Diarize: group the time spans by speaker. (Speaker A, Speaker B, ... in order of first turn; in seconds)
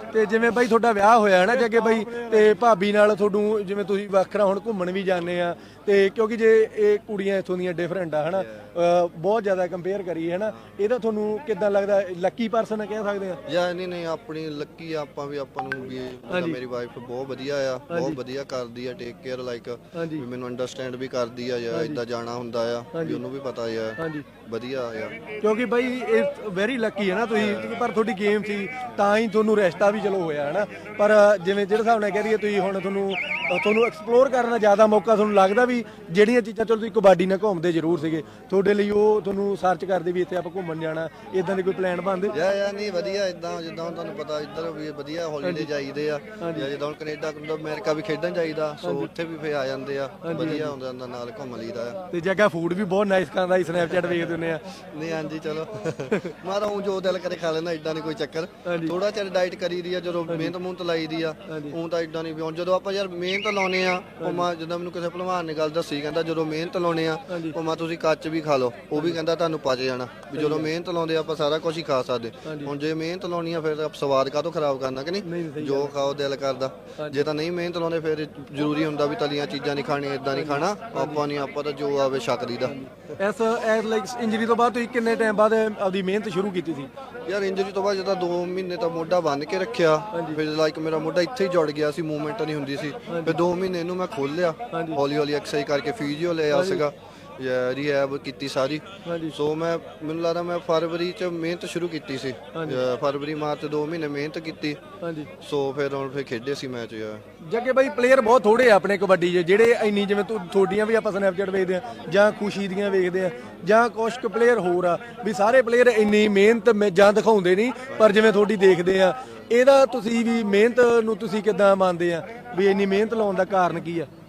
Speaker A: 0.1-13.4, 16.3-16.6, 17.9-18.2, 19.9-20.2, 21.7-22.0, 22.9-23.2, 24.0-24.3, 25.4-42.4, 45.4-45.7, 46.4-46.7, 48.8-49.1, 50.2-50.7, 52.1-54.6, 56.1-56.4, 58.6-59.0, 60.3-60.5, 61.5-61.8, 64.2-64.5, 67.3-67.6, 70.3-70.7, 72.5-72.7, 75.2-75.9, 77.0-77.3, 80.3-81.2, 82.6-86.9, 90.1-90.4, 93.1-93.4, 94.7-95.0, 96.5-96.8, 99.0-99.4, 102.5-102.8, 105.0-105.3, 107.4-124.1
Speaker B: 8.3-8.7, 13.5-25.2, 27.4-27.9, 42.3-52.0, 54.9-82.8, 87.3-104.8, 105.4-107.2, 117.9-118.4